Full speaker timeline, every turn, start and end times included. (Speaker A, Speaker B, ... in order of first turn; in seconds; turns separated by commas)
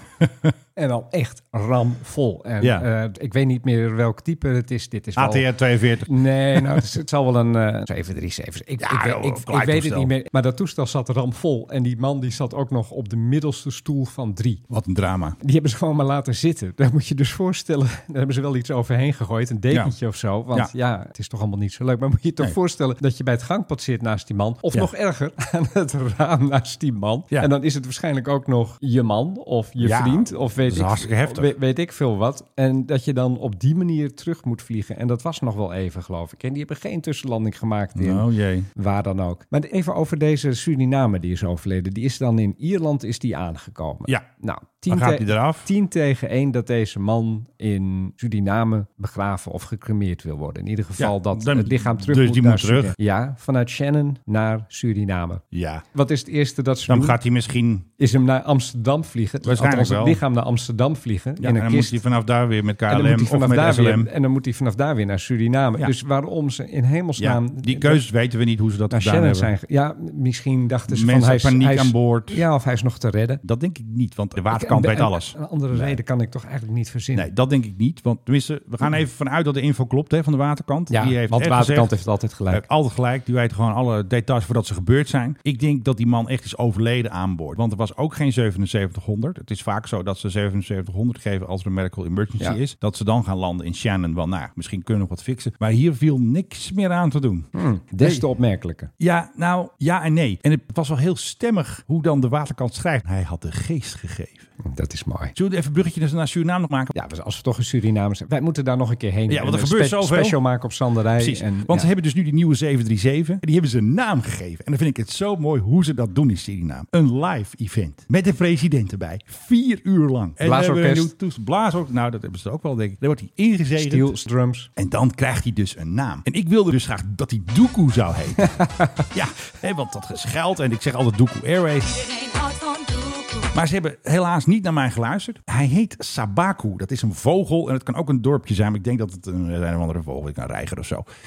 Speaker A: 0.2-0.5, Speaker B: 0.8-5.5, Speaker A: 2.6-2.9, Speaker A: 5.2-6.8, Speaker B: 6.0-14.6, Speaker A: 8.8-10.1, Speaker A: 14.7-15.4, Speaker B: 15.4-55.4, Speaker A: 29.8-31.5, Speaker A: 38.0-38.7, Speaker A: 44.9-45.7, Speaker A: 51.0-52.9, Speaker A: 55.5-55.8, Speaker B: 55.9-57.2, Speaker A: 56.9-57.9, Speaker B: 58.0-62.0, Speaker A: 59.4-60.2, Speaker A: 61.4-64.1, Speaker B: 62.9-68.0, Speaker A: 67.2-69.5, Speaker B: 68.9-73.4, Speaker A: 70.9-72.4, Speaker A: 73.4-76.0, Speaker B: 74.5-77.3, Speaker A: 77.1-81.9, Speaker B: 80.9-82.6, Speaker A: 82.5-97.5, Speaker B: 97.5-98.9, Speaker A: 98.0-98.2, Speaker A: 99.0-104.5, Speaker B: 104.6-105.3, Speaker A: 105.3-106.9, Speaker B: 106.9-111.9, Speaker A: 109.3-110.4, Speaker A: 111.2-124.2, Speaker B: 120.4-121.1, Speaker B: 123.8-124.7, Speaker A: 124.8-132.1, Speaker B: 128.4-129.0, Speaker A: 133.5-141.1